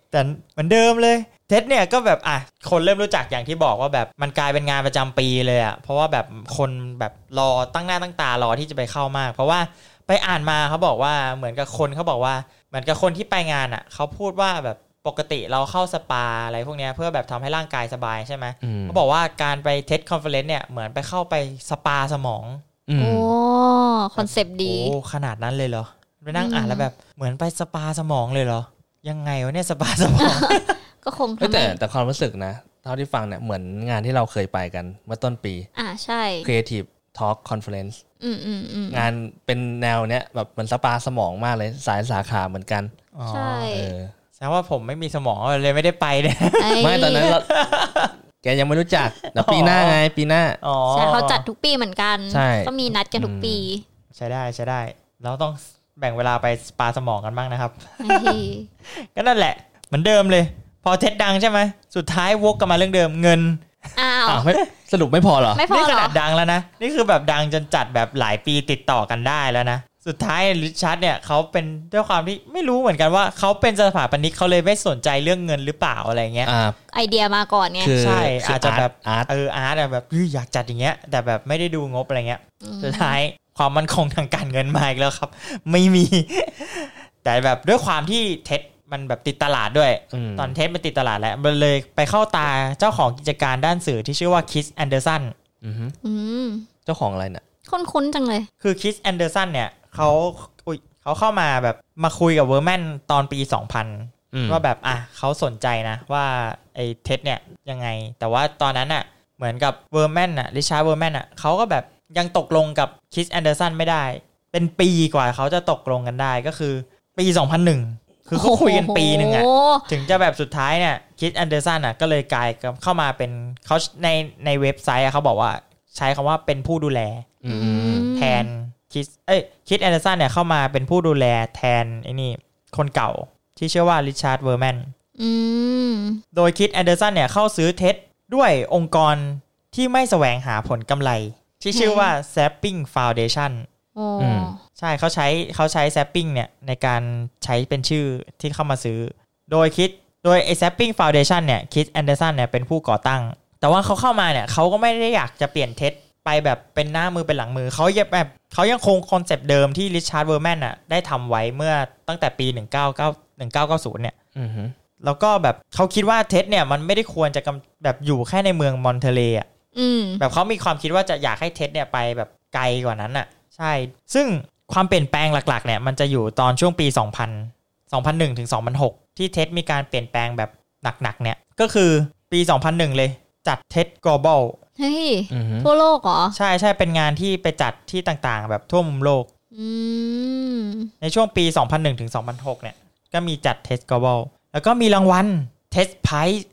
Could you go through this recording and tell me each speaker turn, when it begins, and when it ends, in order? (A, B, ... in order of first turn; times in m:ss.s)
0:00.1-0:22.6 A
0:18.6-0:19.0 B
0:22.9-0:23.3 B
0:23.0-0:25.0 C
0:24.2-0:30.8 A
0:26.3-0:26.9 C
0:30.2-0:31.8 C
0:31.4-0:35.7 B
0:35.8-0:36.5 C
0:36.4-0:38.0 B
0:38.2-0:39.1 C
0:38.9-0:42.9 B
0:43.2-0:43.7 A
0:43.3-0:43.9 C
0:43.7-0:44.1 B
0:44.4-0:48.1 A
0:46.6-0:47.4 C
0:46.8-0:47.5 B
0:48.4-0:50.6 B
0:49.2-0:50.0 A
0:50.6-0:51.4 A
0:50.9-0:53.8 C
0:52.3-0:53.7 B
0:54.1-1:03.6 A
0:58.0-0:58.7 C
1:04.0-1:04.4 C
1:04.3-1:05.6 B
1:04.3-1:04.7 A
1:05.6-1:06.2 C
1:05.7-1:16.5 A
1:16.4-1:16.8 B
1:16.9-1:17.9 C
1:17.8-1:19.3 B
1:18.0-1:35.3 A
1:22.6-1:23.2 C
1:30.1-1:30.6 B
1:35.6-1:36.0 B
1:36.0-1:36.7 C
1:36.9-1:37.4 B
1:37.7-1:38.5 C
1:38.6-2:07.3 A
1:44.3-1:44.6 B
1:58.3-1:59.9 C
2:07.4-2:08.1 B
2:07.5-2:08.5 C
2:08.2-2:14.9 A
2:15.2-2:16.2 C
2:16.3-2:23.7 A
2:21.7-2:22.1 C
2:24.0-2:24.6 C
2:24.2-2:24.5 B
2:24.8-2:44.2 A
2:44.4-2:44.8 B
2:45.0-2:49.5 A
2:49.8-2:50.2 C
2:50.2-3:04.6 A
3:04.8-3:06.4 C
3:05.3-3:05.7 B
3:06.3-3:09.3 A
3:09.5-3:10.9 C
3:11.0-3:16.4 A